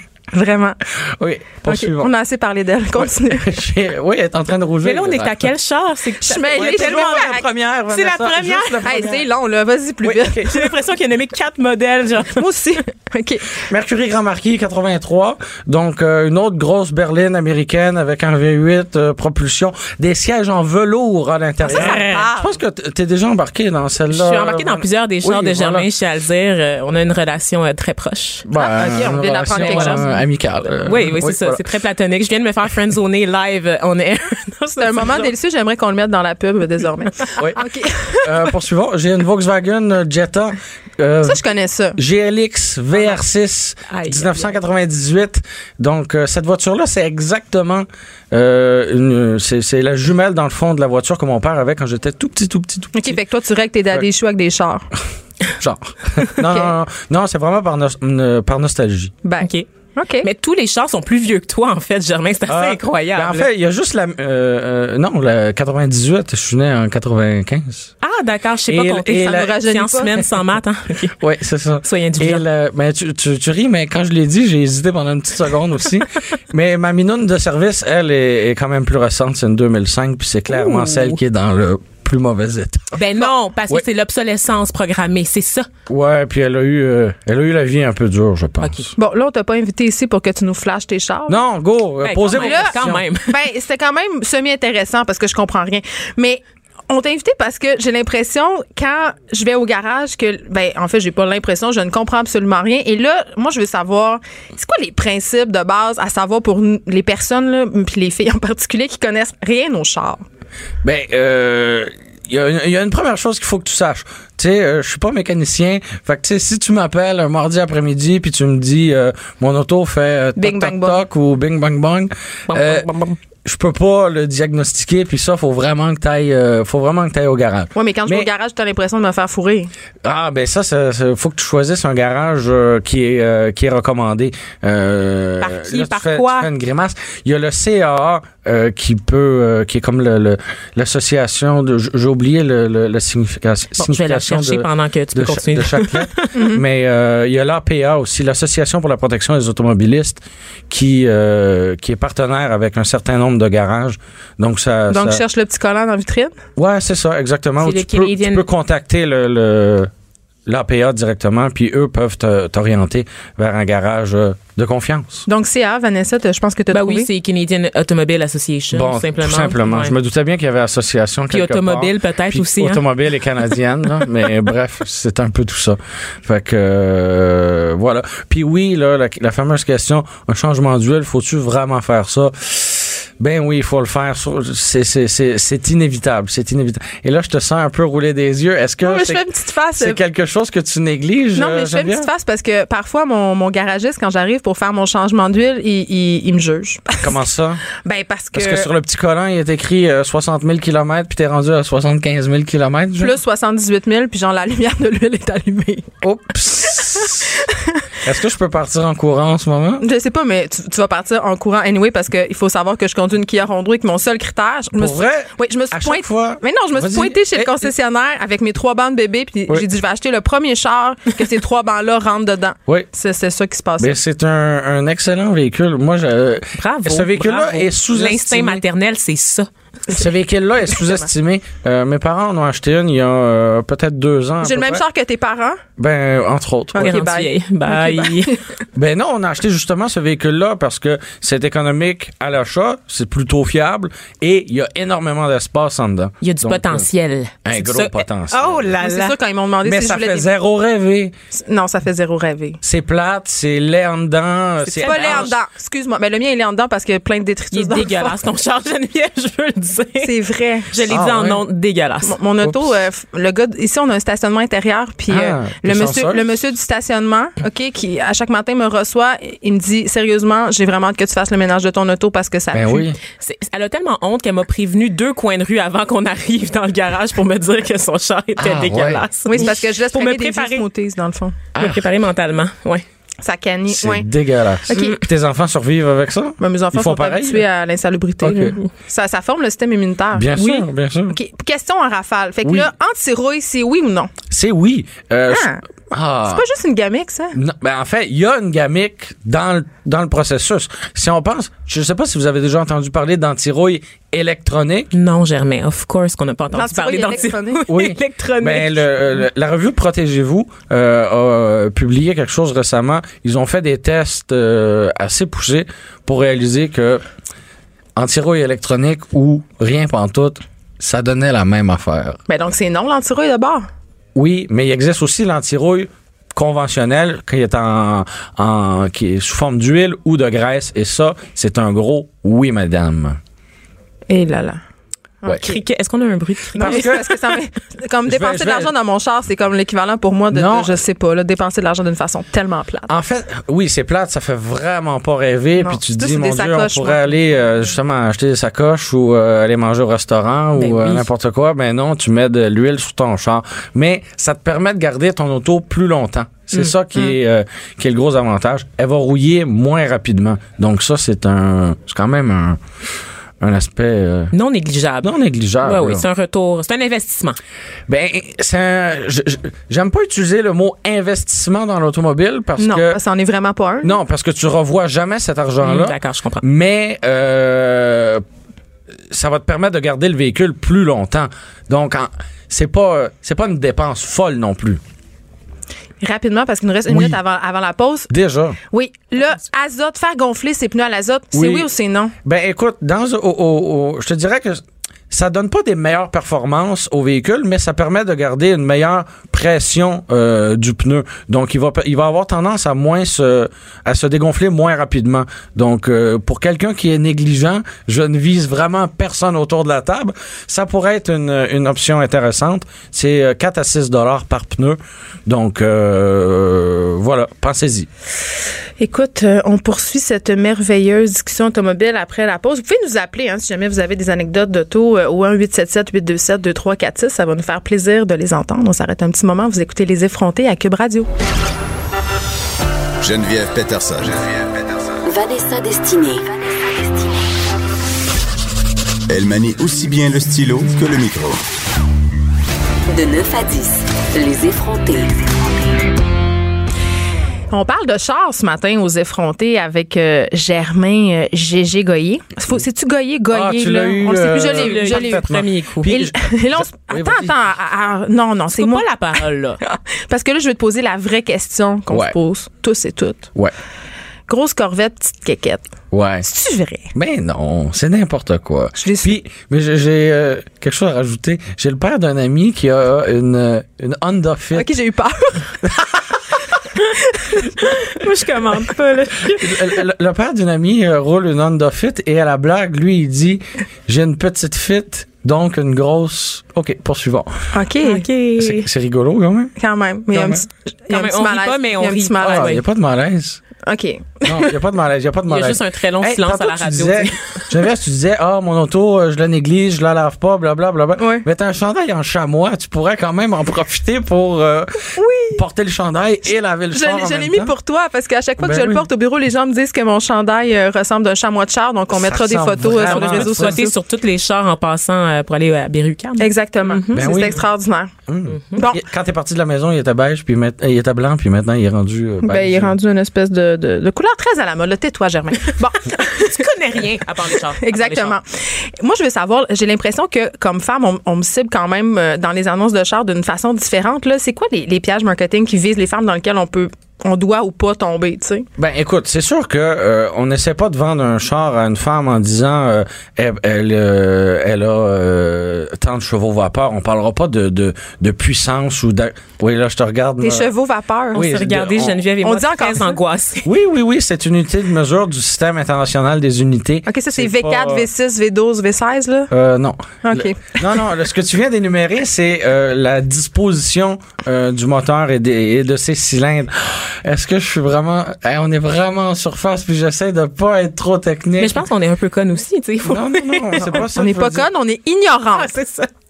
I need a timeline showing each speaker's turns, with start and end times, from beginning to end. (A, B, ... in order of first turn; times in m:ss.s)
0:00.3-0:00.8 A
0:01.0-0:02.1 B
0:01.7-0:03.5 A
0:02.9-0:05.5 B
0:04.8-0:09.1 C
0:06.2-0:07.4 A
0:06.5-0:09.3 B
0:08.8-0:10.4 A
0:10.0-0:10.7 B
0:10.5-0:12.4 C
0:12.4-0:13.6 A
0:13.6-0:25.9 B
0:21.6-0:22.4 A
0:21.7-0:22.3 C
0:24.1-0:28.5 C
0:28.5-0:31.6 B
0:28.6-0:30.1 A
0:29.5-0:30.1 C
0:30.8-0:35.3 C
0:34.8-0:38.5 A
0:37.4-0:41.4 B
0:41.2-0:42.0 A
0:42.0-0:53.2 B
0:43.9-0:44.5 C
0:53.0-0:54.9 A
0:55.6-0:59.1 B
0:56.4-0:56.7 A
0:59.2-1:00.3 A
0:59.4-0:59.7 C
1:00.2-1:03.5 C
1:02.5-1:07.9 B
1:08.0-1:11.2 C
1:08.7-1:09.6 B
1:09.2-1:10.3 A
1:11.2-1:23.0 B
1:11.8-1:12.4 C
1:20.5-1:21.2 C
1:22.9-1:25.7 C
1:25.9-1:28.9 B
1:28.6-1:28.9 C
1:29.0-1:31.4 A
1:31.3-1:33.1 B
1:32.0-1:33.4 C
1:32.4-1:50.2 A
1:50.8-2:02.9 B
2:00.4-2:01.0 A
2:02.5-2:03.1 C
2:03.4-2:08.3 B
2:07.8-2:09.7 A
2:10.0-2:35.2 B
2:15.4-2:16.5 C
2:23.8-2:26.3 C
2:26.3-2:26.6 A
2:34.9-2:36.4 A
2:36.6-2:39.9 B
2:37.6-2:38.4 C
2:40.5-2:45.3 B
2:45.3-2:47.1 A
2:46.7-2:49.9 C
2:48.7-3:09.2 B
2:51.3-2:52.8 C
3:08.8-3:10.0 A
3:09.8-3:12.1 B
3:11.4-3:17.1 A
3:17.0-3:17.6 B
3:17.8-3:18.7 A
3:18.3-3:23.2 B
3:23.0-3:25.9 A
3:26.0-3:27.4 B
3:26.6-3:27.8 A
3:28.0-3:29.9 B
3:29.8-3:44.0 A
3:34.8-3:37.5 B
3:43.8-3:48.6 B
3:46.6-3:49.9 C
3:49.9-3:54.8 B
3:54.4-3:55.6 A
3:55.8-3:57.0 B
3:56.7-3:58.4 A
3:56.8-3:58.4 C
3:58.8-4:06.9 B
4:06.2-4:09.2 C
4:07.4-4:08.7 B
4:08.8-4:10.3 A
4:09.6-4:11.1 B
4:11.3-4:12.6 A
4:12.6-4:15.3 B
4:14.6-4:15.4 C
4:14.8-4:18.2 A
4:17.5-4:20.1 C
4:20.0-4:20.7 A
4:20.7-4:22.2 C
4:20.9-4:21.4 B
4:22.0-4:32.9 A
4:22.4-4:22.7 B
4:25.1-4:26.3 B
4:32.5-4:33.0 B
4:33.2-4:40.6 C
4:38.4-4:39.0 B
4:39.3-4:41.4 A
4:41.6-4:41.9 B
4:41.6-4:42.8 C
4:43.2-4:44.1 A
4:43.7-4:47.5 B
4:44.7-4:45.0 A
4:44.7-4:45.0 C
4:46.4-4:50.3 A
4:48.2-4:48.6 B
4:50.1-4:51.2 B
4:50.4-4:50.6 C
4:51.1-4:54.1 A
4:52.4-4:52.7 B
4:54.3-4:56.4 B
4:55.3-4:55.6 A
4:56.3-4:57.4 A
4:57.3-5:04.9 B
5:04.9-5:08.9 C
5:06.5-5:07.6 A
5:07.7-5:17.0 B
5:18.0-5:22.2 B
5:22.3-5:23.7 A
5:24.2-5:33.2 B
5:34.1-5:34.6 A
5:35.2-5:35.6 A
5:35.4-5:37.0 C
5:36.6-5:42.9 A
5:36.6-5:37.0 B
5:38.1-5:38.7 B
5:40.3-5:40.8 B
5:42.9-6:02.6 B
5:45.6-5:47.2 A
5:50.6-5:51.1 C
6:03.4-6:04.3 B
6:04.3-6:07.4 C
6:05.0-6:06.1 B
6:07.9-6:13.0 B
6:12.6-6:14.0 A
6:13.8-6:18.2 B
6:15.6-6:16.4 C
6:19.1-6:24.8 B
6:26.0-6:28.1 A
6:26.9-6:27.2 B
6:28.1-6:28.6 B
6:28.7-6:32.1 A
6:31.3-6:31.7 B
6:32.2-6:57.9 B
6:58.8-7:11.1 A
7:13.0-7:15.0 D
7:15.1-7:17.2 E
7:19.1-7:21.4 D
7:22.9-7:25.4 E
7:27.5-7:35.3 A
7:33.3-7:37.4 B
7:34.5-7:35.9 C
7:35.9-7:38.9 A
7:38.5-7:39.6 C
7:39.6-7:43.3 A
7:41.9-7:42.2 B
7:44.3-7:45.6 A
7:45.9-7:46.3 B
7:46.2-7:46.9 A
7:46.9-7:54.7 B
7:48.8-7:49.1 A
7:54.5-7:55.5 A
7:55.6-7:56.2 B
7:57.2-7:57.9 A
7:57.7-7:59.7 C
7:59.4-8:07.5 B
8:07.5-8:08.0 A
8:07.8-8:08.7 C
8:08.4-8:09.5 B
8:09.6-8:12.6 A
8:10.1-8:10.4 B
8:10.9-8:12.6 C
8:12.2-8:13.4 B
8:13.6-8:14.5 A
8:14.2-8:27.5 B
8:15.3-8:17.4 C
8:21.0-8:21.3 A
8:25.0-8:25.4 A
8:26.7-8:33.7 A
8:28.4-8:28.9 B
8:31.9-8:33.7 B
8:32.8-8:37.4 C
8:36.2-8:37.9 A
8:36.9-8:37.4 B
8:38.1-8:42.8 B
8:38.3-8:38.6 C
8:38.6-8:38.8 A
8:42.2-8:46.4 A
8:46.2-8:48.2 C
8:47.6-8:58.5 A
8:58.6-9:10.5 B
9:10.2-9:11.2 A
9:11.1-9:13.5 C
9:11.2-9:12.0 B
9:12.2-9:13.0 A
9:13.4-9:17.9 B
9:16.9-9:19.3 A
9:19.3-9:31.6 B
9:20.0-9:20.8 A
9:31.4-9:33.8 C
9:32.8-9:34.5 B
9:34.0-9:35.5 A
9:35.4-9:35.9 C